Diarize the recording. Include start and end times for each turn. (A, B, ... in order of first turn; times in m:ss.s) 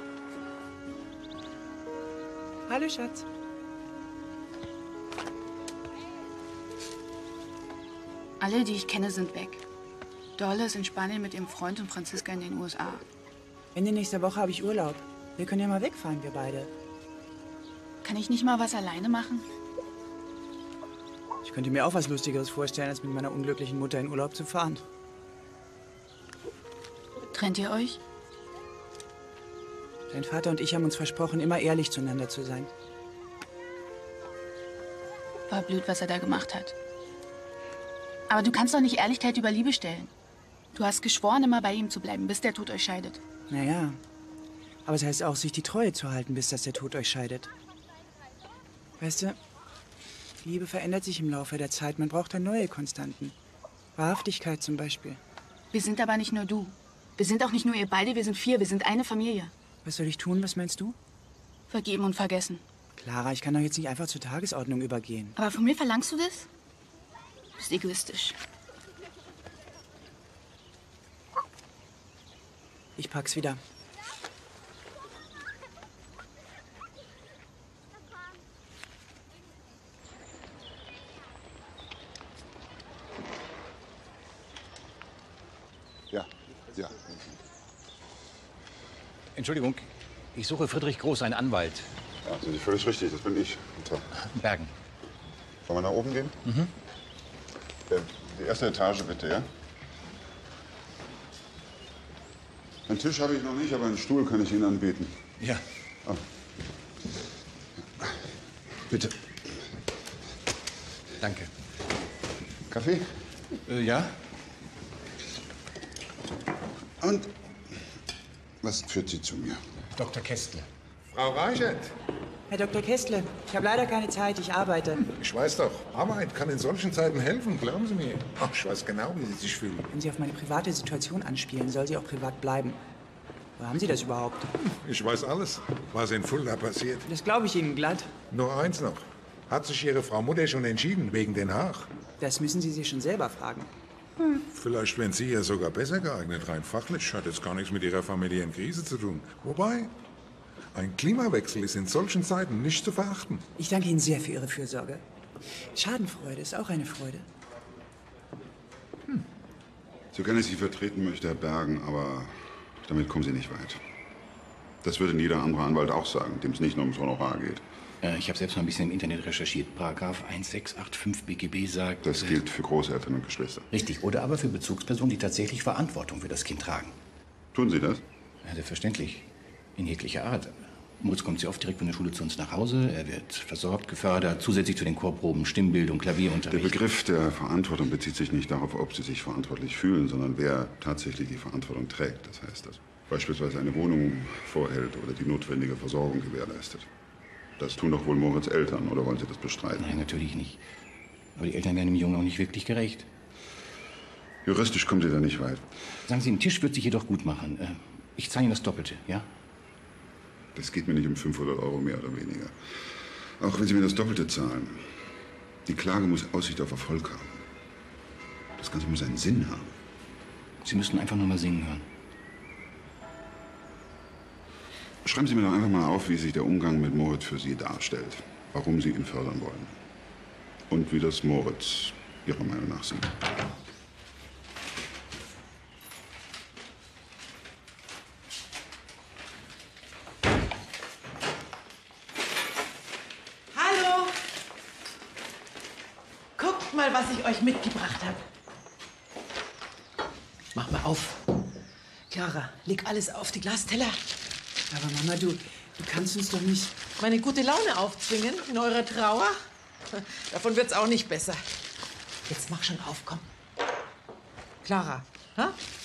0:02.7-0:03.2 A
0:08.4-0:09.6 B
0:10.4-0:13.0 B
0:13.7-0:16.7 C
0:18.0-0:19.4 B
0:21.4-0:24.8 C
0:27.3-0:28.0 B
0:30.1-0:32.7 C
0:35.5-0:36.7 B
0:38.3-0:40.1 B
0:40.7-0:43.2 B
0:43.5-0:44.0 C
0:44.8-0:47.5 C
0:49.0-0:49.4 C
0:50.4-0:53.4 C
0:54.0-0:55.2 C
0:55.7-0:59.5 B
0:59.8-1:01.0 C
1:01.7-1:02.6 B
1:03.0-1:05.3 C
1:05.4-1:06.5 B
1:07.6-1:08.4 B
1:13.0-1:13.6 C
1:29.3-1:31.9 D
1:32.2-1:34.1 E
1:34.3-1:34.7 D
1:35.6-1:36.4 E
1:37.9-1:39.5 E
1:42.9-1:45.2 E
1:48.9-1:49.6 E
1:51.2-1:51.5 D
1:52.7-1:53.2 E
1:53.7-1:54.1 D
1:57.0-1:57.3 E
1:58.6-1:59.6 E
2:01.1-2:01.9 F
2:02.5-2:05.0 C
2:05.0-2:09.9 F
2:09.9-2:12.8 C
2:13.6-2:14.5 C
2:14.8-2:17.1 F
2:17.1-2:18.1 C
2:18.3-2:21.9 F
2:22.2-2:23.7 C
2:24.5-2:29.9 F
2:30.7-2:33.4 F
2:33.6-2:35.0 C
2:35.7-2:37.2 C
2:40.1-2:43.8 E
2:44.8-2:47.6 E
2:48.0-2:52.4 D
2:52.0-2:53.7 E
2:53.7-2:57.0 D
2:57.5-2:58.0 E
2:58.4-3:06.8 D
3:06.5-3:16.9 E
3:17.6-3:19.9 E
3:19.8-3:20.6 D
3:21.4-3:23.1 D
3:24.4-3:25.6 E
3:26.1-3:29.3 D
3:30.5-3:34.9 E
3:35.6-3:37.4 E
3:38.6-3:39.7 E
3:40.6-3:41.9 D
3:45.0-3:49.8 E
3:50.7-3:53.2 E
4:03.5-4:04.2 A
4:06.4-4:08.2 A
4:10.5-4:11.3 A
4:12.1-4:14.0 A
4:14.7-4:16.7 C
4:17.0-4:21.4 A
4:22.3-4:23.2 A
4:24.6-4:25.6 A